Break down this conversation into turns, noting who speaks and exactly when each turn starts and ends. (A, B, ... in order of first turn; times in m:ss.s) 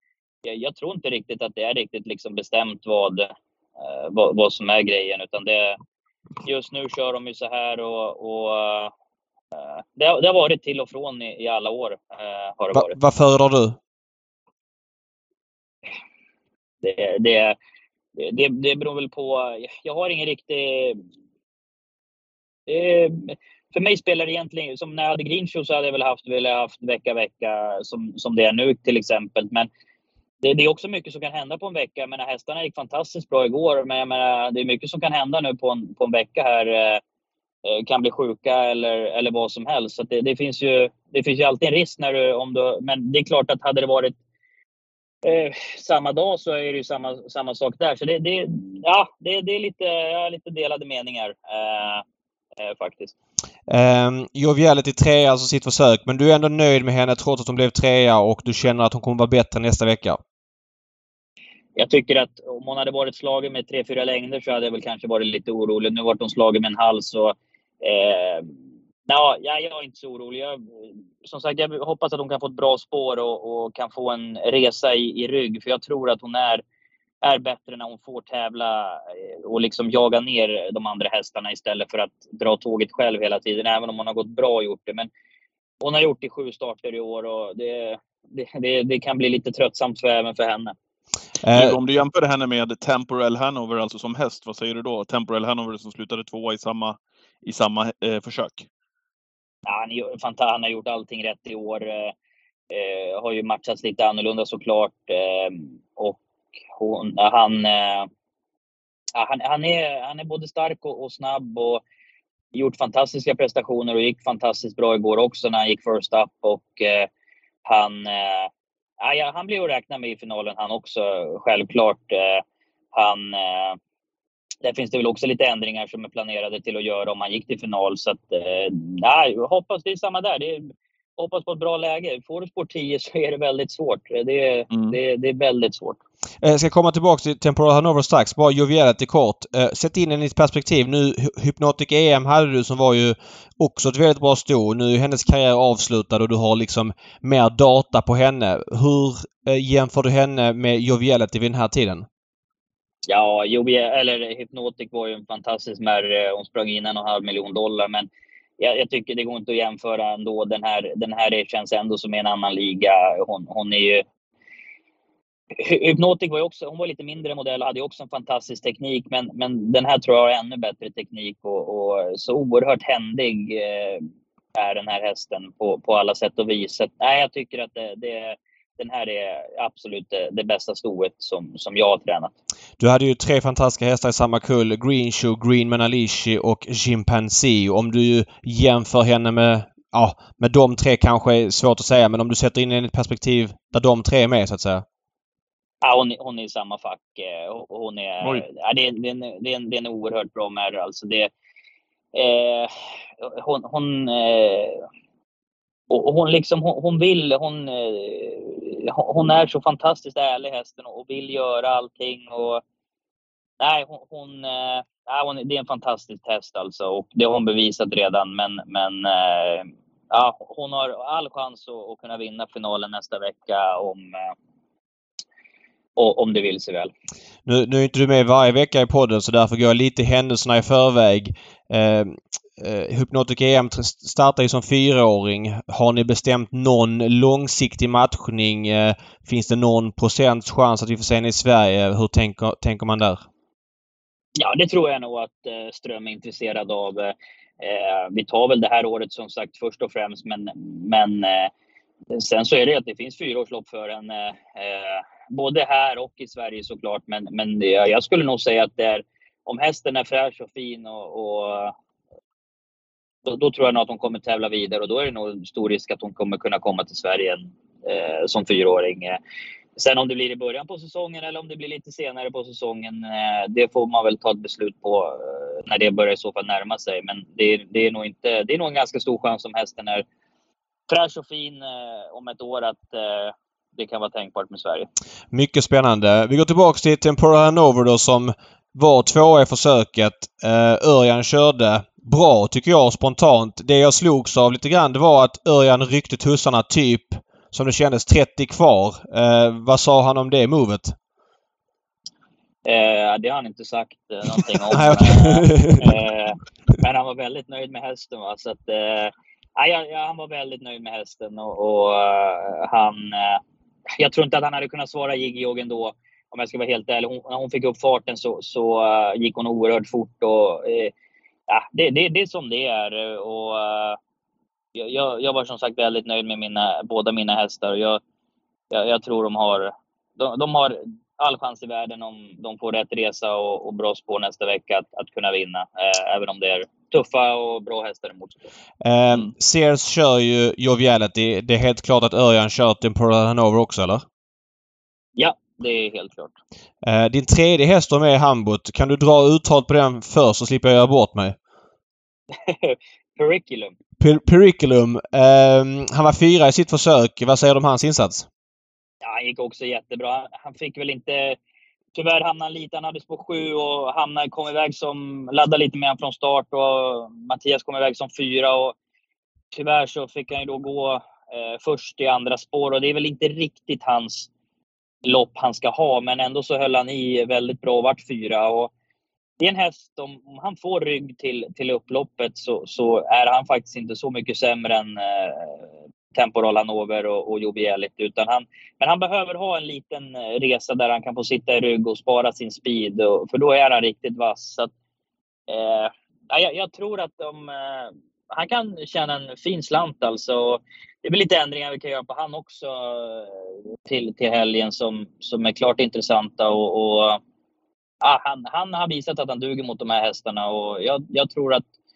0:00.4-0:05.8 A
0:06.4-0:08.9 A
0:09.6-0:12.9 A
0:12.7-0:13.8 B
0:16.8-0:17.6 A
0:18.2-0:21.0 A
0:22.7-0:29.7 A
0:30.4-0:37.0 A
0:37.6-0:44.2 A
0:45.2-0:52.0 A
0:52.6-0:53.1 A
0:53.7-1:00.2 B
1:01.8-1:08.5 A
1:09.1-1:10.6 A
1:11.2-1:16.6 A
1:17.2-1:25.1 A
1:25.8-1:30.7 A
1:31.4-1:31.8 B
1:31.5-1:38.7 C
1:39.6-1:42.1 A
1:42.7-1:46.2 A
1:46.8-1:48.1 A
1:49.1-1:51.8 A
1:52.5-1:57.1 A
1:57.6-2:03.8 A
2:04.6-2:16.0 A
2:14.7-2:15.0 C
2:16.4-2:32.0 B
2:33.0-2:44.0 A
2:45.5-3:02.3 A
3:02.8-3:14.8 B
3:15.8-3:21.3 A
3:22.1-3:24.8 A
3:25.9-3:32.6 A
3:33.6-3:44.3 A
3:46.0-3:46.9 A
3:47.4-4:03.2 B
4:04.4-4:11.5 A
4:12.1-4:21.7 A
4:23.2-4:29.2 A
4:29.8-4:40.0 A
4:40.9-4:44.9 A
4:45.3-5:01.0 B
5:02.6-5:13.4 A
5:04.7-5:06.0 B
5:13.9-5:20.9 A
5:21.5-5:24.0 A
5:24.7-5:28.0 A
5:28.7-5:38.5 A
5:38.8-5:44.0 B
5:45.2-5:46.3 A
5:46.8-5:51.4 B
5:52.3-5:53.7 A
5:54.0-5:58.3 B
5:59.0-6:01.4 A
6:01.9-6:08.7 A
6:09.5-6:14.3 A
6:15.0-6:18.7 A
6:19.4-6:25.6 A
6:26.1-6:34.7 A
6:35.5-6:47.2 A
6:48.0-6:51.6 A